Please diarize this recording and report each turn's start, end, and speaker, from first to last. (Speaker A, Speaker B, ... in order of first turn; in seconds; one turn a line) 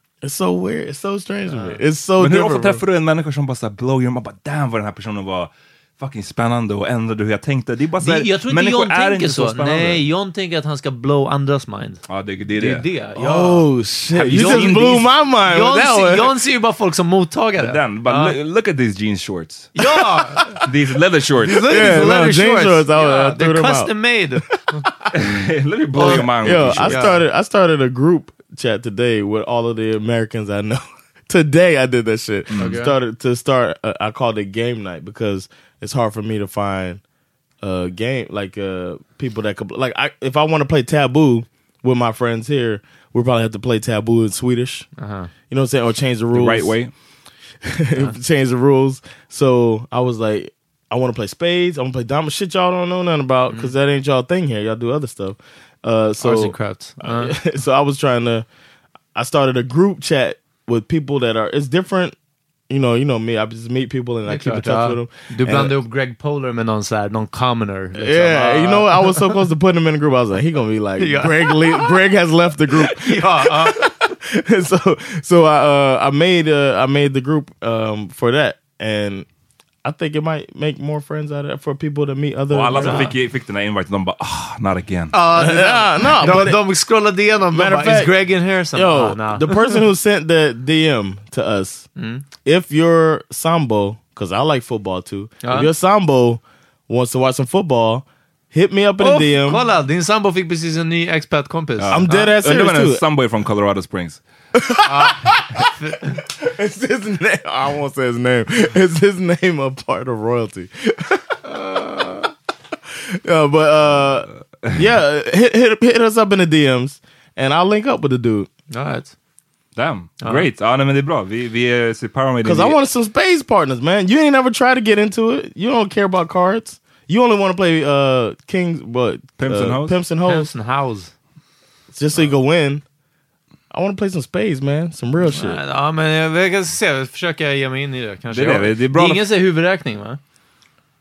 Speaker A: 0.2-2.8
Speaker B: 1.5-1.8
Speaker C: 2.2-10.0
Speaker B: 8.0-12.0
Speaker C: 12.1-12.9
Speaker B: 12.5-13.7
Speaker A: 13.2-16.4
Speaker C: 14.1-15.1
Speaker B: 14.3-18.4
Speaker C: 17.6-19.8
Speaker B: 19.8-20.6
Speaker C: 20.6-22.0
Speaker B: 21.4-24.9
Speaker A: 21.6-23.9
Speaker C: 25.1-27.2
Speaker B: 25.9-27.2
Speaker A: 26.0-37.0
Speaker C: 32.5-32.8
Speaker B: 32.5-33.0
Speaker A: 37.6-44.9
Speaker B: 45.0-45.3
Speaker A: 45.5-46.8
Speaker C: 46.3-46.9
Speaker A: 47.6-58.5
Speaker B: 56.2-57.4
Speaker A: 59.1-62.2
Speaker A: 62.7-65.7
Speaker B: 64.3-69.2
Speaker A: 68.0-79.3
Speaker B: 71.0-72.0
Speaker B: 72.8-73.9
Speaker A: 79.8-83.1
Speaker C: 82.5-85.2
Speaker B: 82.8-83.1
Speaker B: 85.1-89.8
Speaker A: 85.3-86.6
Speaker A: 87.5-88.1
Speaker A: 88.7-91.9
Speaker B: 92.0-92.2
Speaker A: 92.4-99.6
Speaker B: 95.4-95.7
Speaker B: 99.0-102.3
Speaker C: 101.8-104.2
Speaker A: 101.9-103.0
Speaker A: 104.6-105.7
Speaker B: 104.8-106.2
Speaker A: 106.2-112.3
Speaker A: 113.2-118.5
Speaker B: 118.7-119.1
Speaker C: 119.8-122.8
Speaker A: 122.4-130.5
Speaker C: 129.4-130.0
Speaker B: 130.2-131.1
Speaker A: 131.9-132.8
Speaker A: 133.7-135.6
Speaker B: 135.2-140.2
Speaker C: 138.3-139.2